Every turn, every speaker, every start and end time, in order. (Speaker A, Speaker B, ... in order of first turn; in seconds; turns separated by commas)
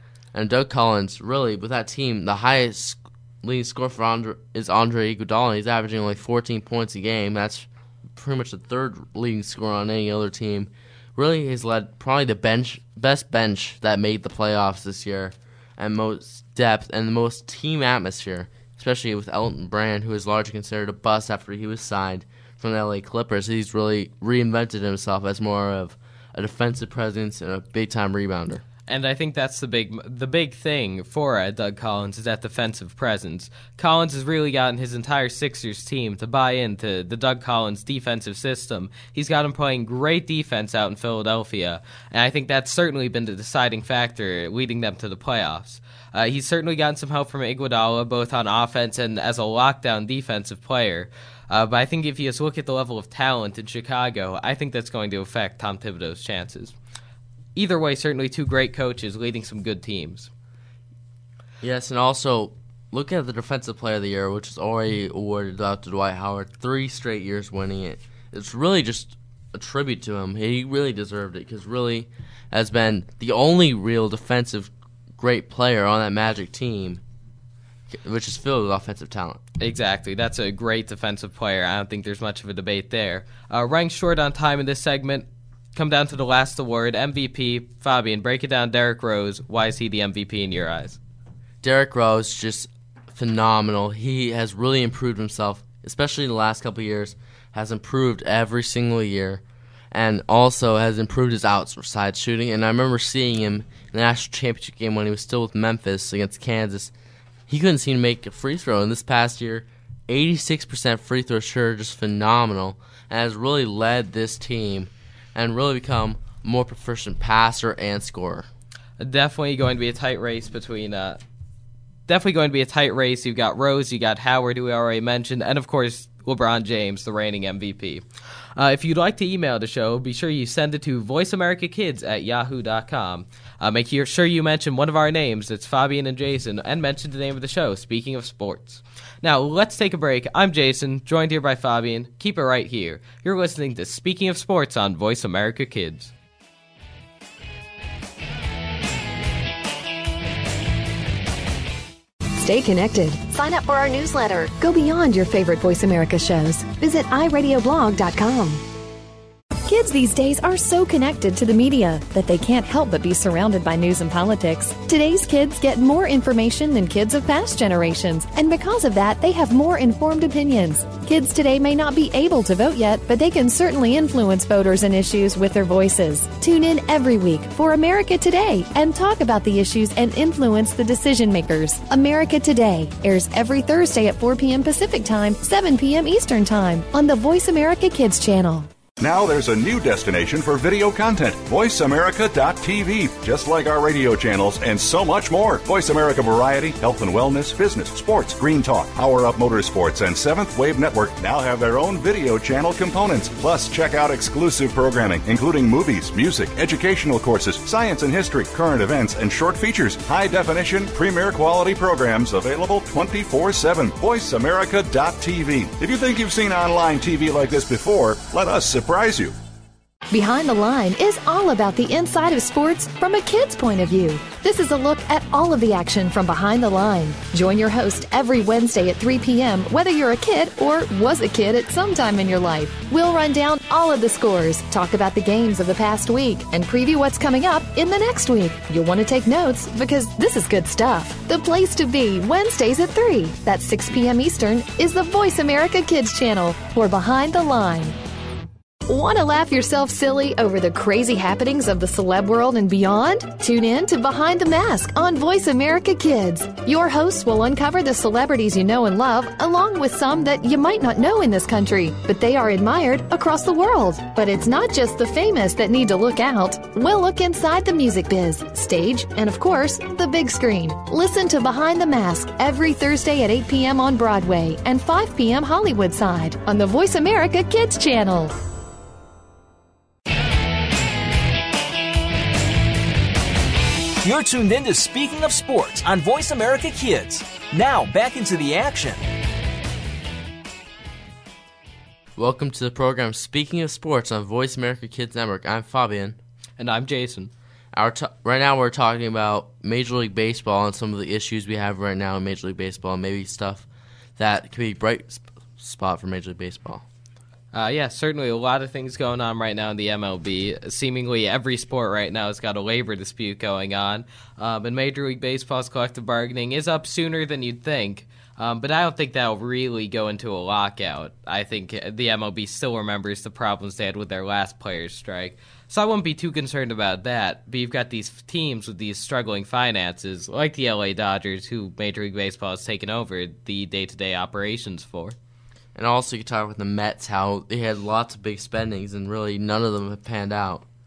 Speaker A: 0.3-28.6, Speaker B: 28.9-56.7, Speaker B: 57.5-60.3, Speaker A: 61.6-77.0, Speaker A: 77.9-79.4, Speaker B: 79.6-91.0, Speaker A: 91.6-106.9, Speaker A: 107.5-118.5, Speaker B: 119.0-121.2, Speaker B: 122.1-128.0, Speaker B: 128.6-146.1, Speaker C: 152.4-158.6, Speaker C: 159.7-188.7, Speaker D: 189.0-219.3, Speaker C: 220.1-248.0, Speaker C: 248.9-278.4, Speaker E: 284.0-289.0, Speaker A: 292.2-296.2, Speaker B: 296.6-297.3, Speaker A: 297.7-306.9, Speaker B: 307.5-335.2, Speaker A: 335.8-340.7